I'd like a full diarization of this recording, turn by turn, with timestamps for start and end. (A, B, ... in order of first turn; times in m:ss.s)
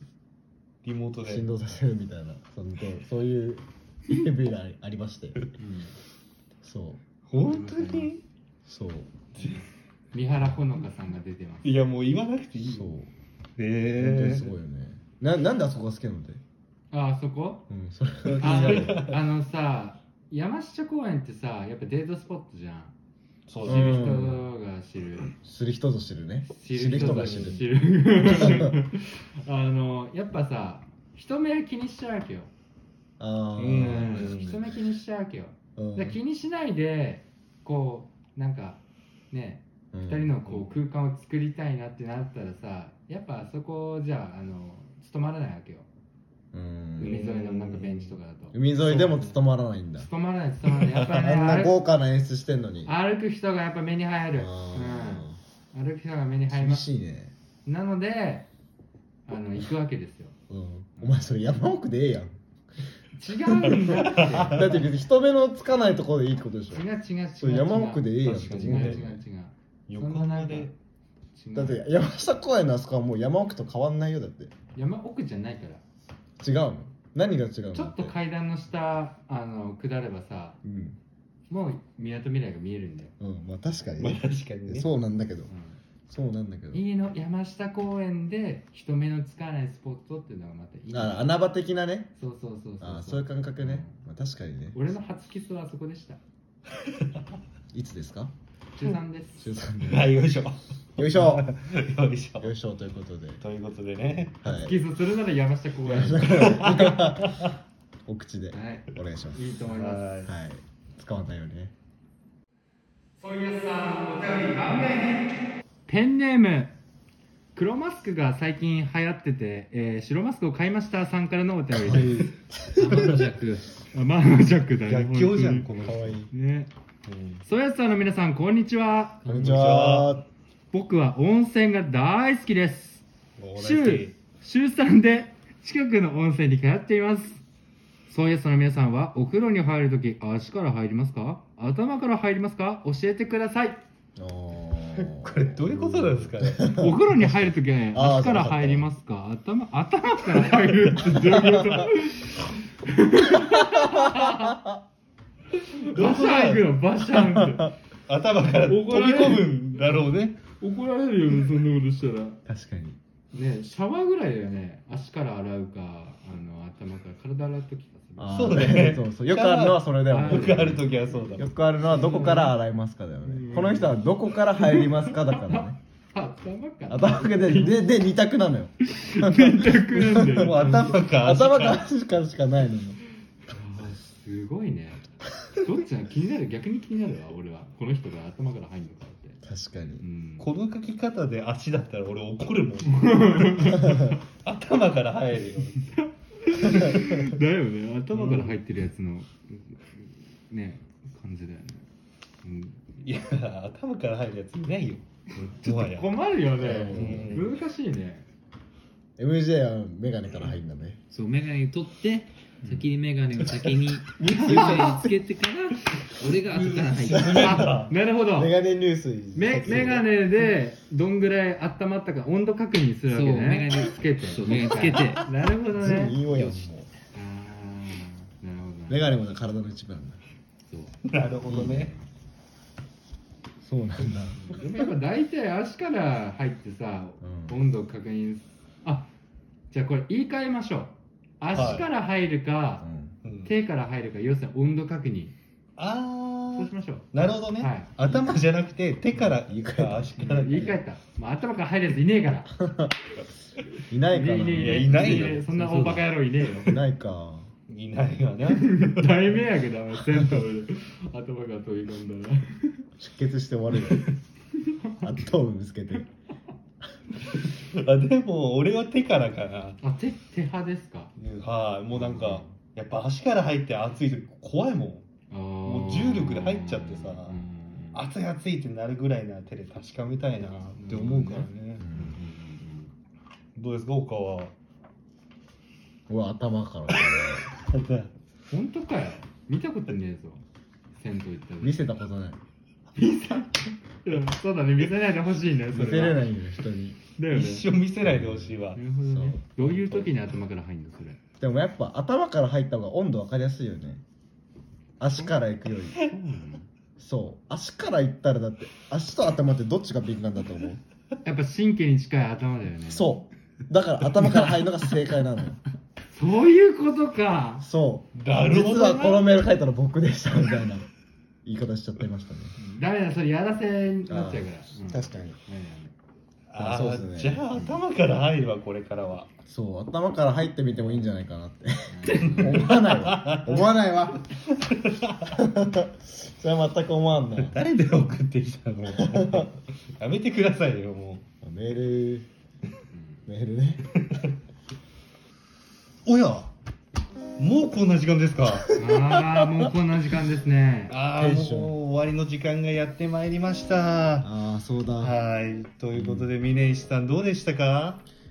0:00.8-0:01.5 A
0:01.2-0:05.5 B
0:05.6-0:06.0 C
0:06.6-0:07.0 B
0:07.2-0:08.2 A
0:07.4-0:08.1 C
0:08.6-0:09.2 B
0:09.3-0:11.7 C
0:09.4-0:09.6 A
0:11.6-0:12.9 A
0:12.6-0:13.1 B
0:13.6-0:14.5 A
0:14.0-0:16.4 B
0:16.9-0:17.7 C
0:17.7-0:19.1 B
0:18.2-0:19.2 A
0:18.4-0:22.9 C
0:23.5-0:24.2 A
0:23.6-0:25.3 C
0:23.6-0:24.4 B
0:25.4-0:28.8 B
0:26.4-0:32.5 C
0:26.9-0:27.6 A
0:33.2-0:34.7 B
0:33.6-0:34.6 A
0:33.8-0:45.9 C
0:35.8-0:36.2 B
0:39.9-0:40.4 B
0:40.4-0:40.7 A
0:46.5-0:47.2 B
0:47.0-0:48.6 C
0:47.0-0:48.2 A
0:48.5-0:50.1 B
0:48.8-0:49.4 A
0:50.0-0:51.8 C
0:50.7-0:51.2 A
0:51.1-0:52.9 B
0:52.8-0:56.8 C
0:54.3-0:55.4 B
0:56.5-0:57.3 B
0:57.6-0:58.5 C
0:59.3-1:00.4 C
1:00.5-1:02.4 B
1:01.0-1:01.2 C
1:03.1-1:04.8 C
1:03.4-1:06.8 B
1:03.9-1:04.8 A
1:06.7-1:10.7 C
1:07.4-1:09.2 B
1:08.2-1:09.1 A
1:09.9-1:10.7 A
1:11.3-1:11.8 C
1:11.5-1:14.5 B
1:14.7-1:15.8 C
1:16.4-1:18.1 B
1:17.7-1:20.6 C
1:20.6-1:21.0 B
1:21.5-1:23.1 C
1:23.2-1:25.5 B
1:24.0-1:24.9 A
1:25.5-1:25.8 C
1:26.1-1:26.8 B
1:26.7-1:31.3 C
1:30.9-1:32.1 B
1:32.2-1:33.9 C
1:32.8-1:35.0 B
1:34.7-1:36.2 C
1:36.8-1:37.2 A
1:37.7-1:38.3 B
1:38.8-1:39.4 C
1:39.4-1:40.2 B
1:39.8-1:42.5 A
1:41.0-1:41.5 B
1:42.4-1:43.4 B
1:43.4-1:44.4 A
1:44.4-1:44.8 B
1:44.4-1:47.0 C
1:45.8-1:47.5 B
1:46.3-1:47.5 A
1:48.1-1:49.5 B
1:48.5-1:50.1 C
1:49.6-1:50.3 A
1:50.2-1:51.7 B
1:53.2-1:55.2 C
1:55.9-1:56.8 C
1:57.5-2:03.3 C
2:01.8-2:03.3 A
2:02.5-2:03.0 B
2:02.8-2:03.6 D
2:03.8-2:06.7 C
2:04.8-2:06.3 A
2:07.0-2:07.4 A
2:07.4-2:09.2 C
2:09.2-2:10.1 A
2:09.2-2:10.3 B
2:10.7-2:13.0 C
2:13.4-2:14.1 A
2:13.6-2:17.4 C
2:18.1-2:23.8 C
2:24.2-2:28.9 B
2:25.0-2:26.8 A
2:26.7-2:34.6 C
2:30.4-2:30.7 A
2:31.2-2:31.9 B
2:33.4-2:34.8 B
2:35.6-2:37.7 C
2:35.9-2:36.8 A
2:37.1-2:37.7 B
2:38.1-2:40.4 A
2:38.6-2:39.5 C
2:40.6-2:42.4 C
2:42.4-2:43.0 B
2:43.3-2:48.8 C
2:48.2-2:55.8 B
2:48.3-2:51.5 A
2:50.1-2:50.9 C
2:51.8-2:52.5 C
2:53.2-2:54.0 C
2:54.5-2:57.8 C
2:56.9-3:03.0 B
2:58.9-3:01.0 C
3:00.2-3:01.8 A
3:03.5-3:09.4 C
3:09.4-3:10.0 B
3:10.0-3:10.5 C
3:10.4-3:15.9 A
3:12.8-3:14.0 C
3:13.8-3:14.2 B
3:15.8-3:21.8 C
3:16.7-3:17.3 A
3:18.1-3:18.6 A
3:22.4-3:22.8 C
3:23.0-3:26.1 A
3:25.6-3:28.3 C
3:26.6-3:27.5 B
3:26.9-3:27.5 A
3:29.2-3:31.0 B
3:31.1-3:37.6 D
3:34.2-3:35.1 C
3:34.2-3:35.0 A
3:36.4-3:37.9 A
3:37.1-3:37.8 B
3:37.4-3:38.5 C
3:38.3-3:40.1 B
3:39.3-3:46.2 C
3:43.1-3:45.3 D
3:45.7-3:46.9 B
3:46.3-3:46.6 D
3:47.1-3:49.0 C
3:48.9-3:50.2 B
3:50.7-3:50.9 C
3:51.0-3:51.9 A
3:51.4-3:52.0 C
3:53.6-3:54.4 B
3:54.3-3:59.1 C
3:57.2-3:57.6 B
3:59.7-4:02.8 C
4:01.5-4:01.9 A
4:02.8-4:03.2 B
4:03.2-4:03.5 A
4:03.4-4:05.4 C
4:05.8-4:10.8 A
4:06.5-4:07.9 C
4:09.1-4:10.2 B
4:10.2-4:12.6 C
4:12.6-4:13.1 B
4:13.9-4:15.1 B
4:14.1-4:16.8 C
4:14.5-4:16.0 A
4:15.0-4:16.1 D
4:16.6-4:17.5 B
4:17.7-4:19.4 A
4:18.5-4:22.8 C
4:23.0-4:24.1 B
4:23.8-4:24.1 A
4:25.0-4:26.1 B
4:27.3-4:29.8 A
4:29.8-4:31.1 C
4:31.1-4:35.1 A
4:31.9-4:32.6 C
4:35.3-4:38.0 C
4:35.6-4:41.8 A
4:40.8-4:42.9 C
4:41.8-4:42.2 B
4:43.5-4:44.5 A
4:46.1-4:47.5 B
4:46.9-4:48.1 A
4:48.5-4:50.4 C
4:50.9-4:51.8 C
4:51.6-4:52.4 B
4:53.0-4:56.3 C
4:55.7-4:57.0 B
4:57.2-4:57.7 C
4:57.3-4:58.8 A
4:58.0-5:00.1 B
4:58.7-5:01.2 C
5:01.4-5:04.0 B
5:05.0-5:06.0 B
5:05.9-5:06.6 C
5:07.0-5:10.8 B
5:11.2-5:13.1 C
5:12.9-5:15.6 B
5:14.2-5:14.5 A
5:16.1-5:17.6 C
5:17.6-5:20.9 B
5:18.1-5:19.4 A
5:21.4-5:22.6 B
5:22.6-5:25.9 C
5:24.1-5:25.4 B
5:26.5-5:29.3 A
5:26.6-5:27.5 B
5:27.5-5:27.8 C
5:29.4-5:34.2 B
5:30.8-5:31.0 A
5:31.9-5:32.6 C
5:32.2-5:33.6 A
5:34.3-5:35.4 A
5:35.3-5:37.6 B
5:37.4-5:41.2 A
5:39.0-5:39.5 B
5:41.4-5:42.3 B
5:42.9-5:43.2 C
5:43.2-5:43.9 B
5:44.0-5:44.3 A
5:46.0-5:46.5 A
5:47.4-5:48.7 A
5:48.7-5:50.9 C
5:50.9-5:54.3 A
5:51.1-5:51.7 B
5:54.2-5:55.2 B
5:55.0-5:58.0 A
5:55.9-5:56.3 B